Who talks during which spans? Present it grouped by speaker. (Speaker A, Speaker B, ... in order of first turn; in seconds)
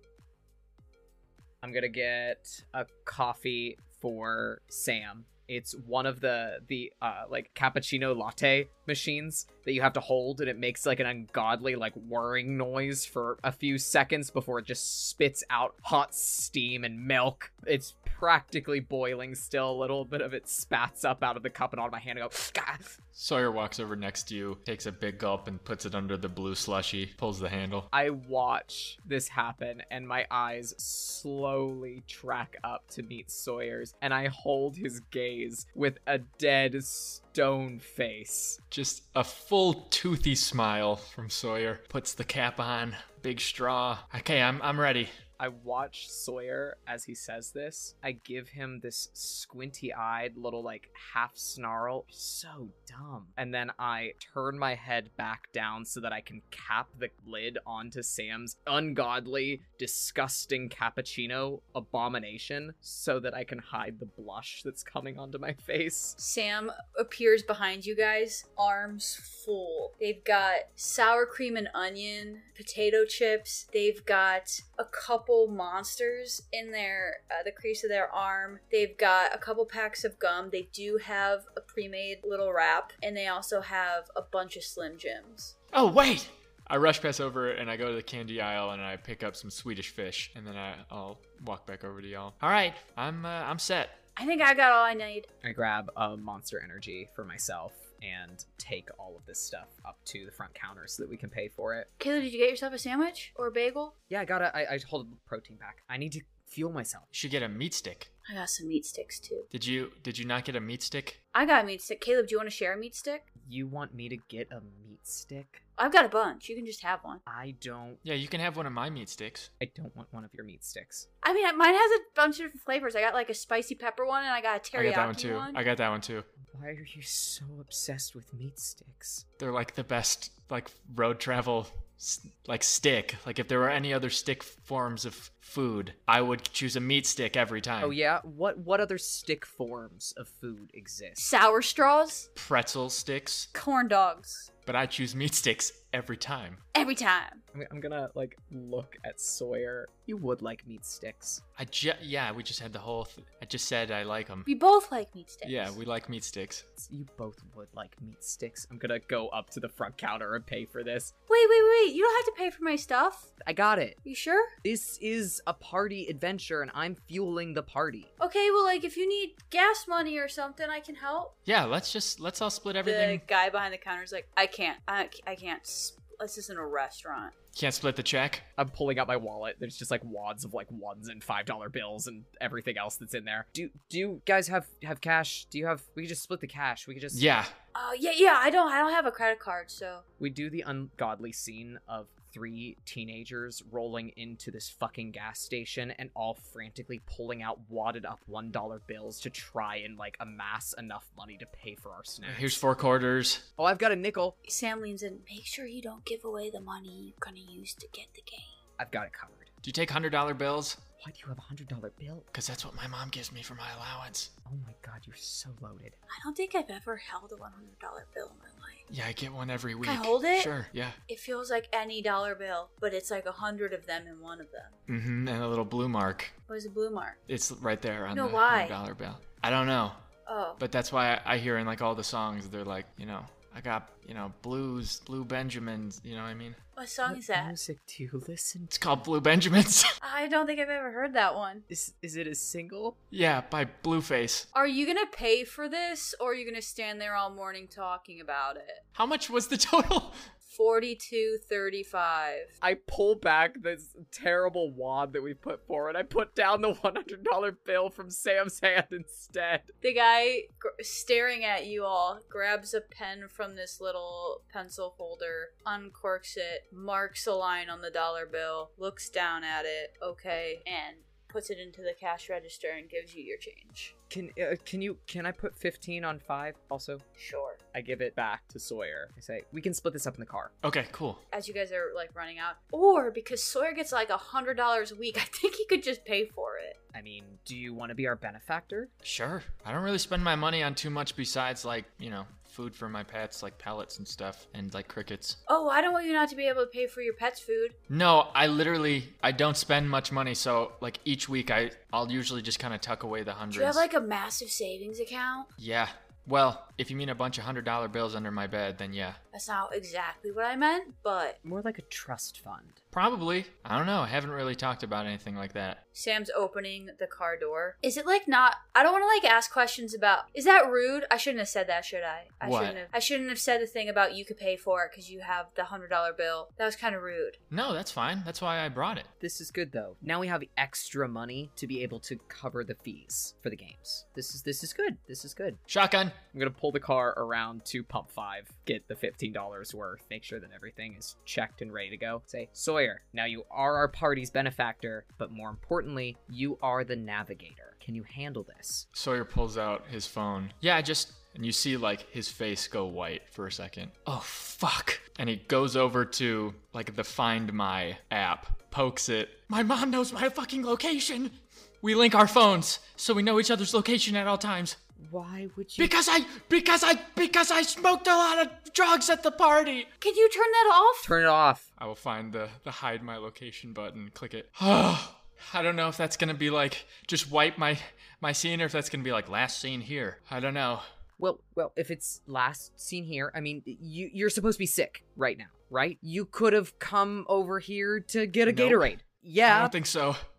Speaker A: 1.6-23.0, 27.9-38.6, 45.4-66.2, 95.4-101.9, 104.1-107.1, 113.4-115.6, 117.2-118.0, 119.6-121.1, 126.5-129.2, 137.8-141.2, 147.5-151.4, 156.8-161.1, 163.4-164.0, 164.6-168.1, 178.6-187.2, 190.2-202.6, 203.6-204.4, 208.8-209.5, 211.0-212.3, 214.4-216.0, 237.1-239.0, 241.7-243.0, 252.6-259.7, 274.1-277.0, 277.7-280.5, 286.9-288.9, 311.4-312.8, 329.2-335.6, 336.3-348.9, 365.0-365.9, 371.0-371.7, 381.2-389.7
Speaker B: 23.1-27.9, 38.7-45.1, 85.7-94.0, 107.1-108.1, 109.5-111.2, 118.0-119.5, 124.7-126.3, 129.4-137.9, 142.3-143.5, 144.7-146.6, 151.6-154.5, 155.4-156.7, 171.4-173.2, 177.5-178.4, 187.1-187.5, 202.2-203.4, 209.6-210.8, 212.3-214.3, 218.9-221.0, 224.9-226.3, 227.3-230.0, 230.6-236.6, 238.7-240.0, 243.1-244.5, 248.9-250.2, 280.6-281.2, 289.0-295.4, 297.9-303.8, 305.6-309.2, 312.9-315.8, 322.4-322.8, 327.5-329.1, 335.7-336.2, 348.9-364.8, 365.8-369.9, 371.8-380.9, 388.5-388.9, 389.4-390.2
Speaker C: 66.2-85.5, 94.2-95.3, 102.0-103.9, 108.3-109.5, 111.3-113.3, 115.8-117.2, 121.2-125.6, 141.2-142.3, 143.5-144.5, 146.7-147.4, 154.4-155.8, 161.3-163.3, 164.0-164.5, 168.2-171.3, 172.8-177.3, 187.7-190.0, 204.4-208.6, 216.1-218.8, 219.8-220.5, 221.1-224.7, 226.5-227.2, 228.1-228.8, 230.2-230.6, 236.8-237.5, 240.0-241.7, 244.5-248.8, 250.5-252.5, 259.8-273.9, 277.2-277.6, 281.3-286.8, 295.5-297.8, 303.5-305.5, 309.3-311.4, 315.9-327.4, 370.0-371.1